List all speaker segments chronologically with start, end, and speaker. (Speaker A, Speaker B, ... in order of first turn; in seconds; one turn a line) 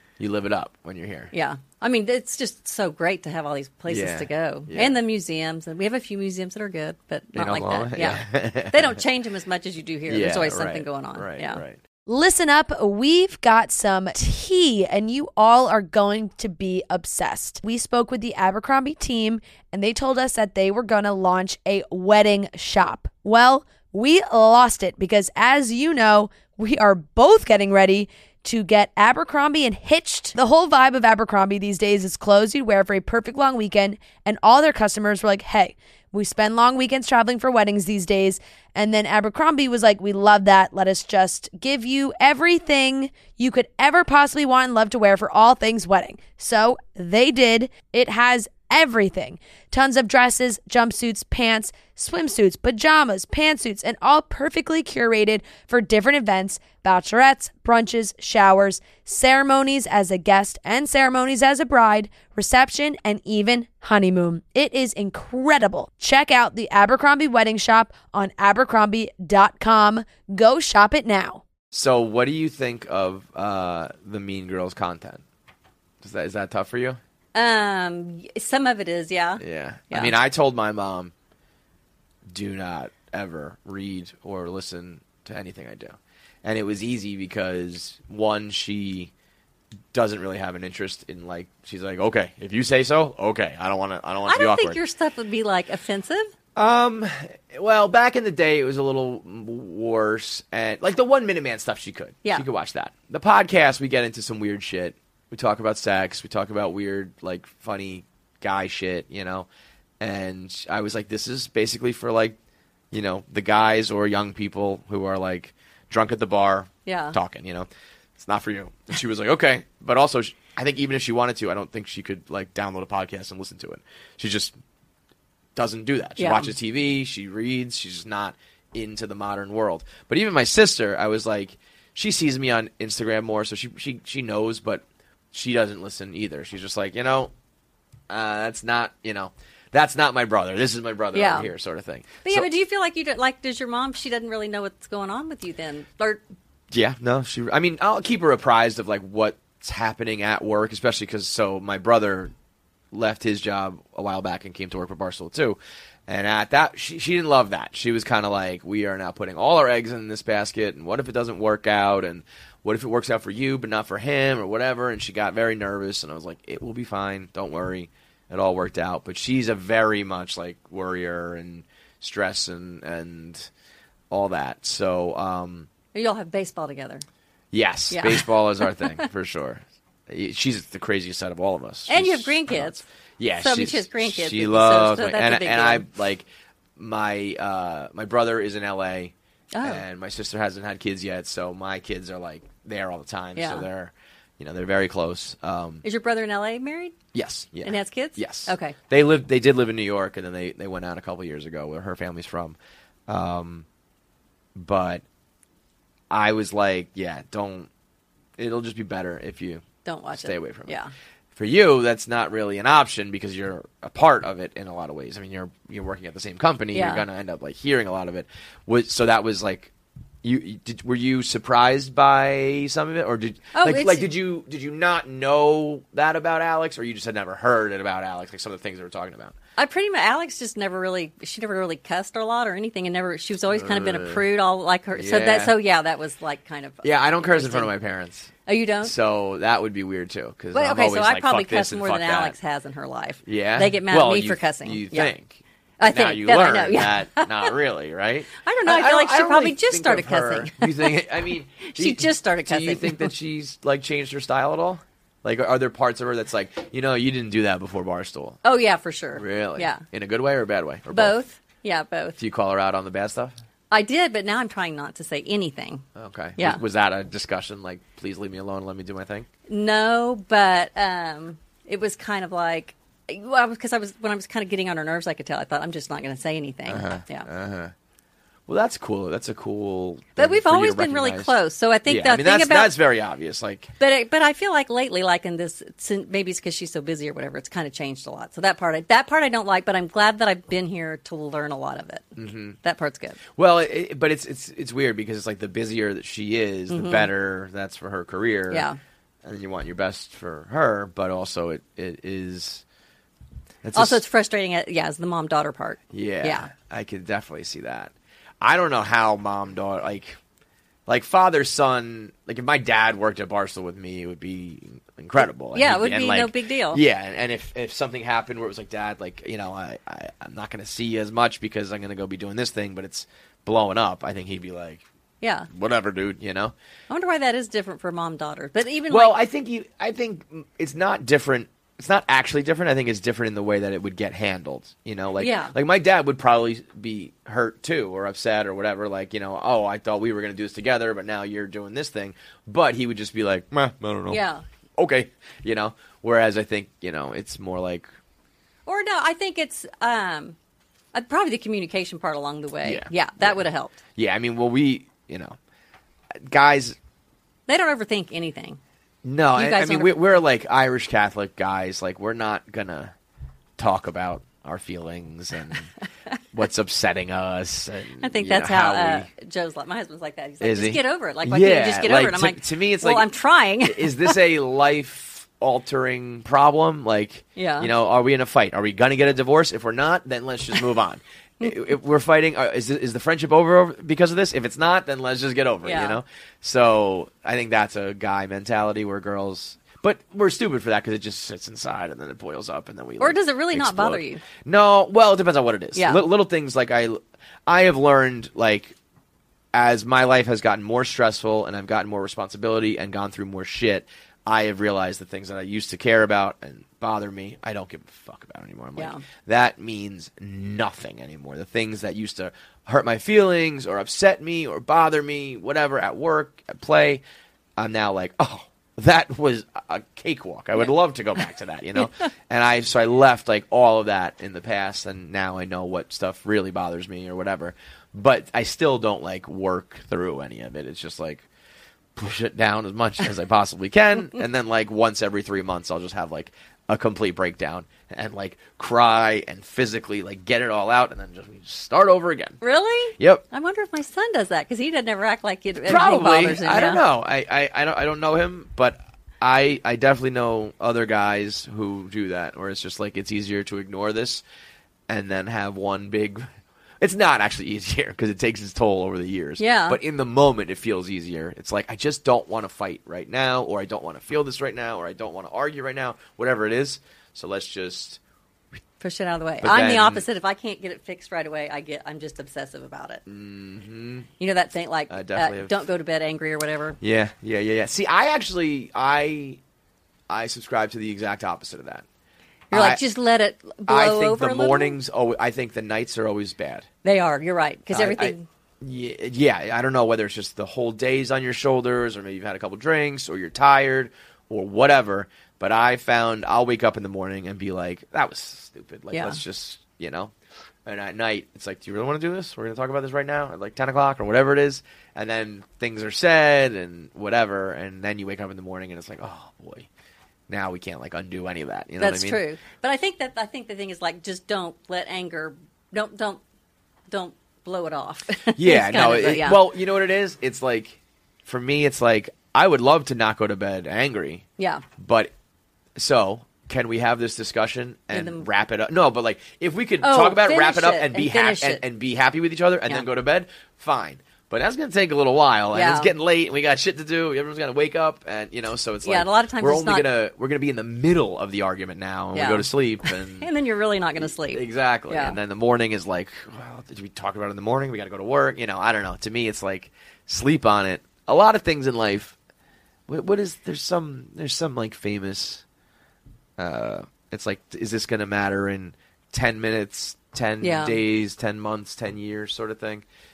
Speaker A: 0.2-1.3
Speaker B: 1.3-11.6
Speaker A: 3.9-5.0
Speaker A: 7.3-9.0
Speaker A: 10.1-11.8
Speaker C: 12.1-71.4
Speaker A: 71.7-75.2
Speaker A: 76.0-77.0
Speaker B: 77.3-80.1
Speaker A: 79.4-81.1
Speaker A: 82.3-89.1
Speaker A: 89.9-94.8
Speaker B: 94.3-96.3
Speaker A: 96.5-109.5
Speaker A: 110.0-112.4
Speaker A: 112.9-124.6
Speaker B: 116.8-117.2
Speaker A: 125.5-137.3
Speaker B: 126.2-126.5
Speaker A: 138.1-142.5
Speaker B: 141.1-141.5
Speaker B: 142.2-146.2
Speaker A: 146.7-152.3
Speaker A: 152.9-173.5
Speaker A: 174.1-175.7
Speaker B: 175.9-177.0
Speaker A: 177.5-195.8
Speaker B: 177.9-178.9
Speaker B: 181.9-182.8
Speaker B: 183.4-185.8
Speaker B: 189.5-189.8
Speaker B: 193.3-193.7
Speaker B: 195.8-197.0
Speaker A: 197.1-202.6
Speaker B: 197.6-198.8
Speaker A: 203.1-203.7
Speaker A: 204.5-205.0
Speaker A: 206.1-207.7
Speaker A: 208.4-210.8
Speaker B: 209.8-210.9
Speaker A: 211.3-219.7
Speaker B: 216.7-217.0
Speaker A: 220.2-229.3
Speaker B: 223.5-224.1
Speaker B: 229.6-237.7
Speaker A: 233.5-234.2
Speaker A: 234.9-235.5
Speaker A: 236.8-242.3
Speaker B: 238.4-238.9
Speaker B: 240.5-245.1
Speaker A: 243.2-258.4
Speaker B: 245.8-247.5
Speaker B: 248.4-251.1
Speaker B: 251.6-253.1
Speaker B: 258.4-259.8
Speaker A: 259.1-261.2
Speaker B: 260.9-262.2
Speaker A: 262.2-263.3
Speaker B: 263.7-265.8
Speaker A: 265.9-269.3
Speaker B: 269.5-277.3
Speaker A: 276.7-277.7
Speaker A: 278.5-281.3
Speaker B: 280.2-282.7
Speaker A: 281.9-283.7
Speaker B: 283.8-293.2
Speaker A: 292.1-292.6
Speaker A: 293.4-298.6
Speaker B: 296.7-297.1
Speaker B: 298.5-298.8
Speaker A: 299.2-302.6
Speaker A: 303.6-304.0
Speaker B: 303.7-306.5
Speaker A: 305.9-310.2
Speaker A: 310.9-324.8
Speaker B: 315.5-316.8
Speaker B: 325.2-325.5
Speaker A: 325.5-326.5
Speaker B: 326.9-329.1
Speaker A: 328.9-344.2
Speaker B: 335.2-335.5
Speaker B: 344.1-344.4
Speaker A: 344.8-347.9
Speaker B: 348.6-350.3
Speaker B: 350.9-353.8
Speaker A: 352.6-353.4
Speaker A: 353.9-355.4
Speaker A: 356.1-356.8
Speaker B: 357.5-358.6
Speaker A: 359.0-362.9
Speaker B: 359.4-360.0
Speaker A: 363.6-365.7
Speaker A: 366.3-369.1
Speaker B: 368.0-374.2
Speaker A: 370.4-373.1
Speaker A: 373.6-398.8
Speaker B: 377.4-377.7
Speaker B: 381.4-381.7
Speaker B: 385.6-386.0
Speaker B: 393.0-394.2
Speaker B: 395.8-396.0
Speaker A: 399.5-417.0
Speaker A: 417.6-431.2
Speaker A: 431.9-442.4
Speaker B: 442.4-446.8
Speaker A: 443.0-443.2
Speaker A: 445.6-454.2
Speaker A: 454.9-456.3
Speaker A: 456.8-468.0
Speaker B: 459.4-459.8
Speaker B: 468.8-473.0
Speaker A: 469.4-470.0
Speaker A: 473.1-474.1
Speaker B: 474.2-476.8
Speaker A: 474.9-475.5
Speaker A: 476.8-479.4
Speaker A: 480.1-481.8
Speaker A: 482.5-482.8
Speaker B: 482.5-484.8
Speaker A: 483.7-486.7
Speaker B: 486.8-488.2
Speaker A: 487.7-500.1
Speaker B: 498.9-499.2
Speaker A: 500.6-509.7
Speaker A: 510.3-512.2
Speaker B: 511.8-516.2
Speaker B: 516.9-519.5
Speaker A: 518.3-524.2
Speaker B: 524.4-524.6
Speaker A: 524.8-525.1
Speaker A: 525.8-543.3
Speaker B: 527.9-528.3
Speaker B: 529.8-531.6
Speaker B: 535.5-535.9
Speaker B: 538.8-539.9
Speaker B: 542.1-545.2
Speaker A: 544.0-552.1
Speaker A: 552.9-555.4
Speaker A: 556.4-562.8
Speaker B: 560.4-560.8